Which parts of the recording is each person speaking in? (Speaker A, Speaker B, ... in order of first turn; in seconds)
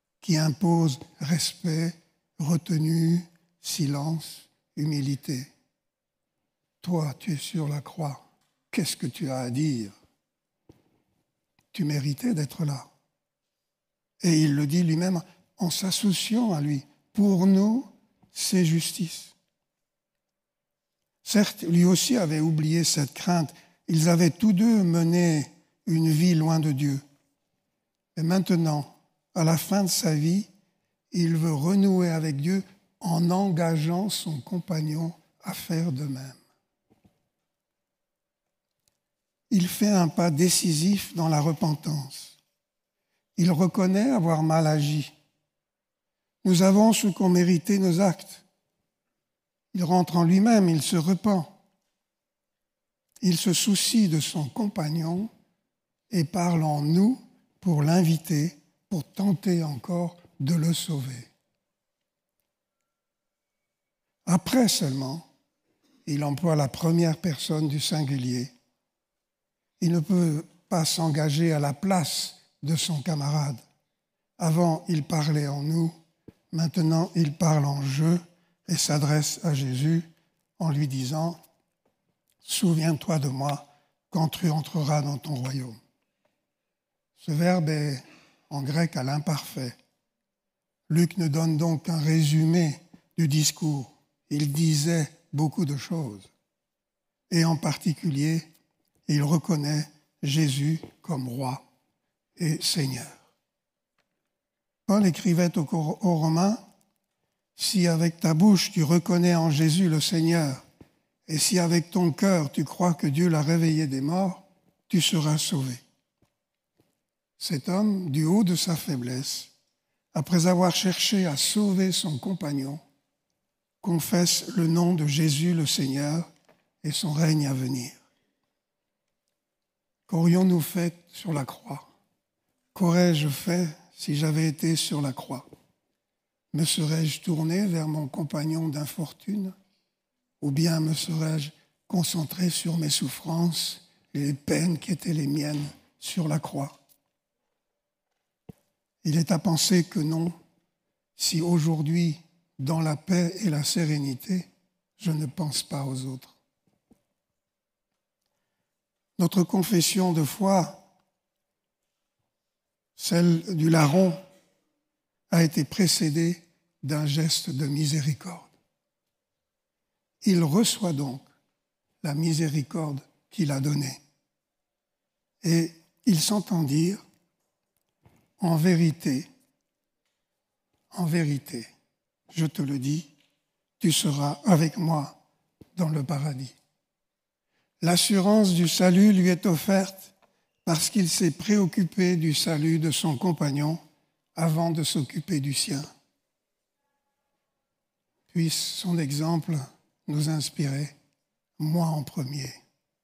Speaker A: 0.2-5.5, 6.8-9.9, 11.7-12.9, 14.2-19.3, 21.2-27.0, 28.1-30.5, 31.1-36.4, 39.5-42.4, 43.4-45.1, 46.4-48.4, 49.7-51.5, 53.2-55.3, 56.1-61.3, 64.2-65.3, 66.0-68.5, 69.8-73.6, 74.4-75.9, 76.5-80.1, 80.6-81.4, 82.4-85.8, 87.2-89.8, 90.9-96.3, 97.3-98.5, 99.1-101.6, 102.4-103.2, 104.9-106.6, 107.5-110.6, 111.3-115.8, 117.4-119.5, 120.1-122.8, 123.8-126.3, 126.8-128.0, 130.1-131.9, 132.7-135.4, 136.5-139.5, 140.4-146.8, 149.0-150.3, 151.2-154.5, 155.0-156.3, 159.2-160.8, 163.0-164.2, 165.3-168.5, 170.2-171.3, 172.0-174.0, 175.4-177.0, 178.4-179.3, 180.9-181.7, 182.3-183.1, 183.8-185.2, 185.7-186.5, 187.8-190.1, 190.6-193.8, 194.3-195.8, 198.3-200.9, 201.6-202.6